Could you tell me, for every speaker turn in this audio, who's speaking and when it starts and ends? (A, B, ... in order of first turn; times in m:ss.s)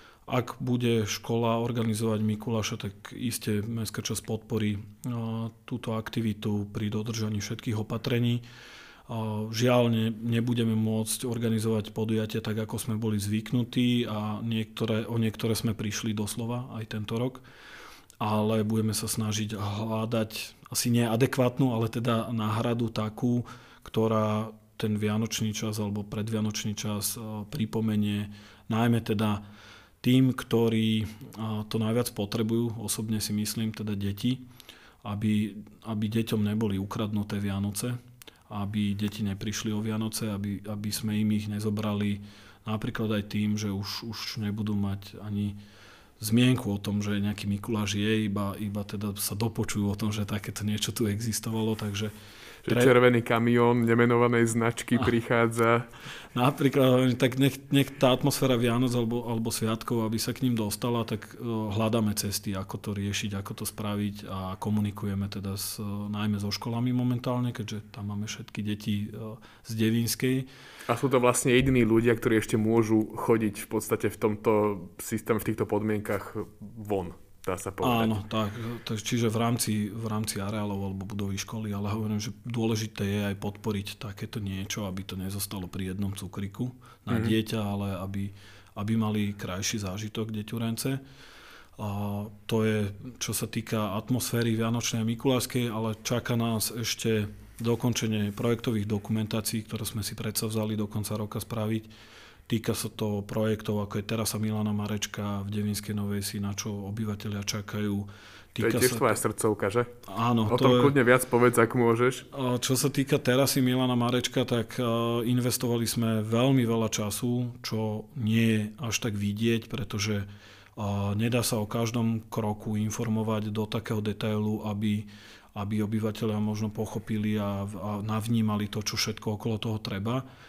0:00.3-0:08.4 A
0:09.1-0:17.4 A
0:18.2-0:29.4 A
0:30.0-0:34.4 A
0:35.0-0:38.0 A
0:38.5-0:45.6 A
0:46.2-0:52.1 A
0:52.6-0:55.9 B
0:52.7-0:52.9 A
0:56.3-1:10.5 A
1:10.9-1:18.1 B
1:17.8-1:31.0 A
1:31.8-1:41.9 A
1:42.5-1:49.2 A
1:48.6-1:49.9 B
1:50.1-1:50.9 A
1:50.5-1:52.3 B
1:52.3-2:10.2 A